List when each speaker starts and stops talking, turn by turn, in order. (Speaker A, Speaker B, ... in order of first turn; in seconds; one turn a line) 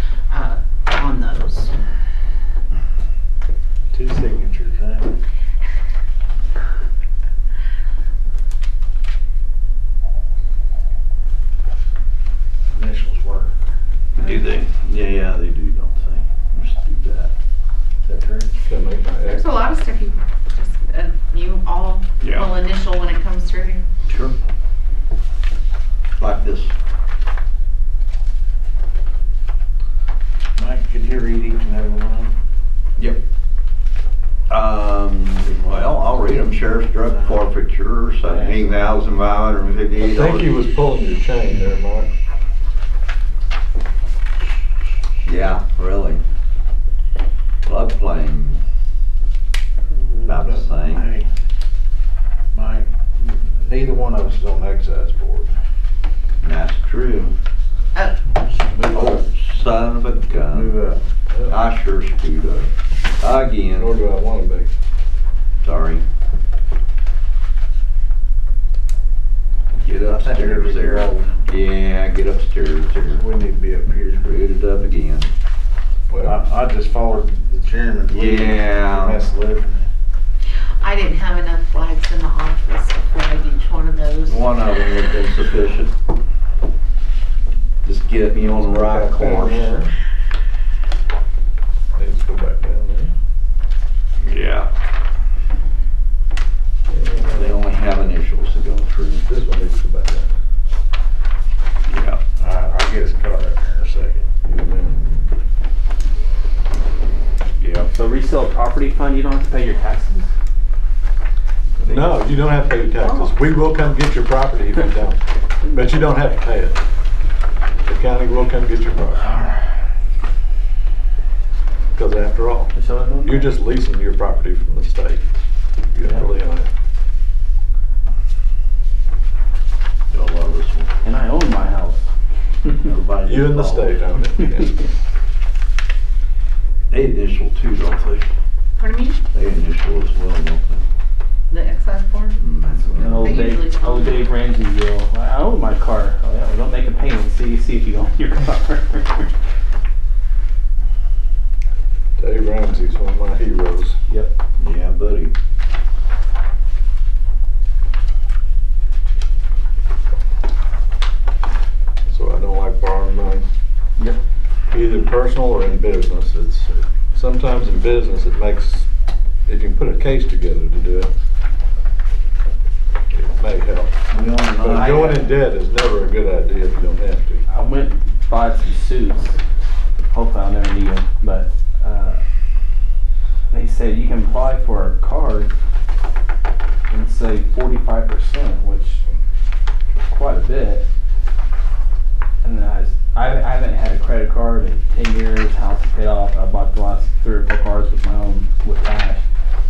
Speaker A: 0.3-1.7
Speaker B: 3.9-5.1
Speaker B: 12.7-13.5
Speaker C: 14.2-17.3
Speaker B: 18.0-18.5
Speaker D: 18.6-19.4
Speaker A: 19.2-23.9
Speaker C: 22.2-22.5
Speaker C: 24.1-24.3
Speaker C: 26.2-26.7
Speaker B: 30.6-32.3
Speaker C: 34.5-40.6
Speaker B: 35.5-37.5
Speaker B: 38.2-38.9
Speaker D: 40.0-42.1
Speaker C: 45.2-46.2
Speaker C: 47.6-48.6
Speaker B: 50.2-51.3
Speaker C: 50.2-51.1
Speaker B: 52.5-55.5
Speaker C: 56.4-57.3
Speaker D: 58.6-59.2
Speaker C: 58.9-60.7
Speaker B: 60.5-61.0
Speaker D: 61.3-61.6
Speaker C: 61.5-63.9
Speaker D: 63.7-64.7
Speaker C: 65.6-66.0
Speaker C: 69.8-73.2
Speaker B: 69.9-71.5
Speaker B: 73.1-74.3
Speaker C: 74.2-75.3
Speaker D: 76.1-76.4
Speaker B: 76.2-79.9
Speaker C: 78.1-79.2
Speaker A: 80.8-84.5
Speaker C: 84.3-85.9
Speaker C: 87.8-89.9
Speaker D: 88.5-89.9
Speaker D: 92.0-93.1
Speaker C: 94.2-94.7
Speaker D: 96.9-97.6
Speaker C: 97.3-99.2
Speaker D: 99.2-100.3
Speaker C: 101.9-102.2
Speaker B: 102.4-104.3
Speaker D: 104.4-105.0
Speaker C: 107.6-107.9
Speaker E: 107.9-110.3
Speaker D: 111.8-116.8
Speaker E: 111.8-112.1
Speaker A: 113.0-113.3
Speaker D: 117.8-119.3
Speaker D: 121.9-122.7
Speaker E: 122.7-123.5
Speaker D: 123.2-125.3
Speaker D: 125.9-126.7
Speaker C: 130.1-130.9
Speaker E: 131.0-132.1
Speaker B: 132.8-134.0
Speaker D: 133.2-134.8
Speaker C: 136.9-138.2
Speaker A: 138.8-139.2
Speaker C: 139.3-140.8
Speaker A: 141.5-144.2
Speaker C: 142.4-143.4
Speaker E: 142.7-149.3
Speaker D: 152.2-154.0
Speaker C: 154.6-155.3
Speaker D: 162.1-163.4
Speaker D: 164.7-168.9
Speaker D: 169.5-171.1
Speaker D: 173.1-173.9
Speaker C: 174.1-175.3
Speaker D: 174.6-177.4
Speaker E: 177.5-179.4
Speaker E: 180.1-182.2
Speaker E: 183.5-185.5
Speaker E: 186.9-189.0
Speaker E: 189.9-190.8
Speaker E: 192.4-199.2